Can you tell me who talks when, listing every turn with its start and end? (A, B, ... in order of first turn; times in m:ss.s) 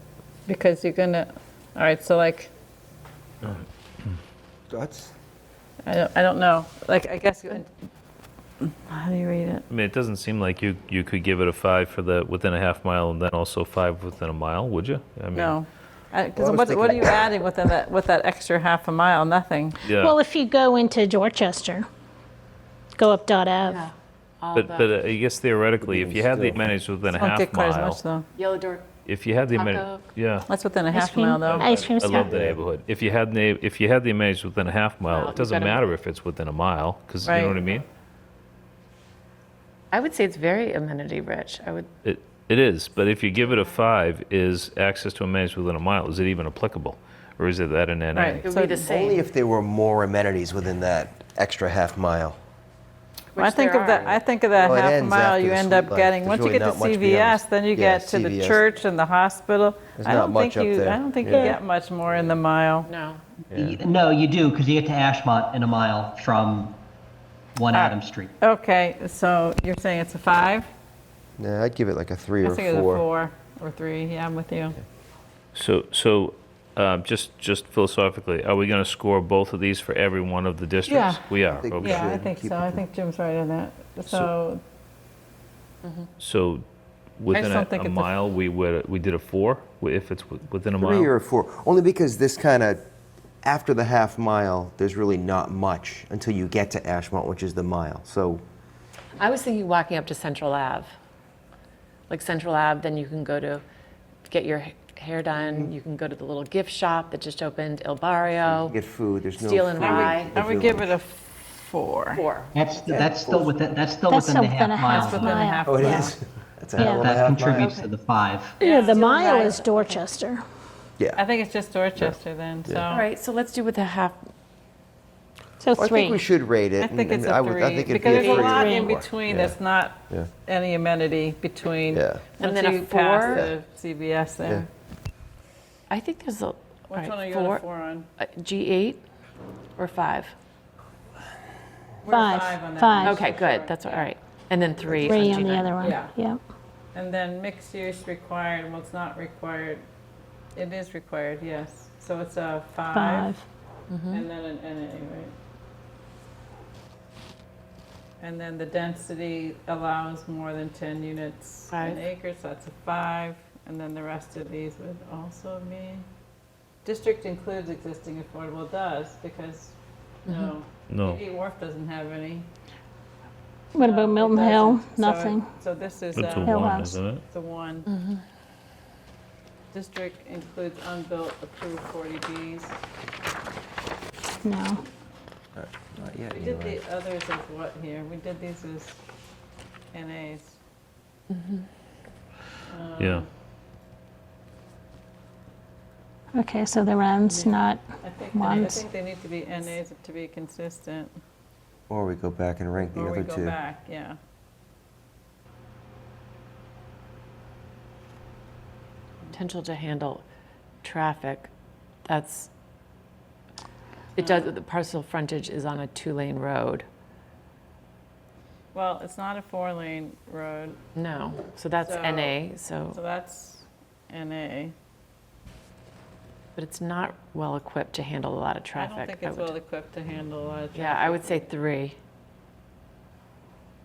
0:00.5-0:02.5 A
0:04.7-0:05.1 B
0:05.8-0:07.7 A
0:08.6-0:09.6 A
0:09.7-0:15.6 C
0:15.3-0:19.8 A
0:16.4-0:17.2 B
0:19.8-0:20.2 C
0:19.9-0:21.9 D
0:23.0-0:23.9 D
0:23.6-0:25.0 E
0:24.6-0:28.0 C
0:25.8-0:26.7 B
0:27.1-0:28.3 A
0:28.4-0:28.9 E
0:29.1-0:30.5 C
0:29.5-0:30.1 E
0:30.5-0:31.9 A
0:30.9-0:32.3 D
0:31.5-0:37.8 C
0:32.2-0:32.6 B
0:35.1-0:35.9 E
0:37.2-0:37.8 A
0:39.9-0:41.9 E
0:42.0-0:48.4 C
0:48.1-0:48.8 A
0:48.4-0:49.3 E
0:48.8-0:52.4 B
0:53.3-0:54.2 E
0:53.4-1:02.9 A
0:54.6-0:58.7 B
1:00.0-1:01.5 B
1:01.3-1:01.6 D
1:02.8-1:03.2 E
1:03.5-1:03.8 B
1:03.5-1:06.8 F
1:07.6-1:08.3 F
1:07.7-1:10.7 A
1:11.4-1:13.0 B
1:12.4-1:14.8 A
1:15.6-1:22.1 C
1:20.9-1:21.2 A
1:21.5-1:22.8 B
1:21.8-1:24.6 A
1:26.2-1:26.7 C
1:27.2-1:31.1 C
1:27.3-1:28.1 A
1:30.8-1:32.8 B
1:33.4-1:38.4 B
1:39.2-1:40.9 E
1:42.1-1:43.6 E
1:44.3-1:48.8 E
1:45.4-1:45.7 B
1:48.4-1:50.9 B
1:49.4-1:50.3 E
1:49.8-1:52.2 A
1:52.1-1:52.6 E
1:52.6-1:55.5 F
1:52.9-1:53.6 B
1:54.1-1:56.1 D
1:54.9-1:56.2 A
1:55.6-1:57.7 B
1:56.8-1:57.1 D
1:56.8-1:58.6 F
1:57.6-1:57.9 E
1:58.6-2:00.0 A
1:58.6-2:00.4 D
1:58.7-1:59.8 E
2:01.2-2:03.1 A
2:02.0-2:02.9 B
2:02.9-2:04.2 E
2:05.6-2:06.3 D
2:05.8-2:09.6 B
2:06.8-2:14.7 A
2:08.1-2:08.6 E
2:08.2-2:09.0 D
2:11.9-2:12.3 B
2:12.4-2:13.5 E
2:13.2-2:13.5 B
2:15.9-2:17.6 E
2:16.9-2:18.1 A
2:18.2-2:19.0 E
2:19.8-2:20.3 E
2:22.0-2:24.1 A
2:22.1-2:23.2 D
2:23.0-2:25.7 E
2:24.9-2:26.4 D
2:25.0-2:26.2 A
2:26.9-2:29.9 A
2:30.6-2:33.3 A
2:32.9-2:33.4 D
2:33.9-2:34.3 E
2:34.1-2:35.3 A
2:38.2-2:46.1 A
2:41.7-2:42.0 E
2:46.8-2:52.5 A
2:50.3-2:50.5 E
2:50.9-2:51.2 C
2:53.7-2:55.5 D
2:53.8-2:57.9 A
2:56.1-2:57.2 C
2:56.4-2:57.0 D
2:57.9-2:58.2 E
2:59.7-3:02.8 A
3:04.4-3:04.8 D
3:05.6-3:06.8 B
3:06.3-3:09.0 A
3:09.9-3:10.6 A
3:11.3-3:11.6 E
3:12.7-3:13.3 A
3:13.0-3:13.2 C
3:16.4-3:18.9 D
3:17.2-3:21.2 A
3:21.9-3:23.6 B
3:22.8-3:24.2 A
3:29.3-3:30.2 E
3:30.8-3:31.5 E
3:32.1-3:32.5 E
3:34.2-3:36.8 E
3:34.2-3:34.5 A
3:38.7-3:40.8 A
3:41.0-3:43.0 E
3:41.8-3:42.4 A
3:42.9-3:44.8 A
3:46.6-3:49.6 E
3:48.7-3:51.5 A
3:50.7-3:52.0 E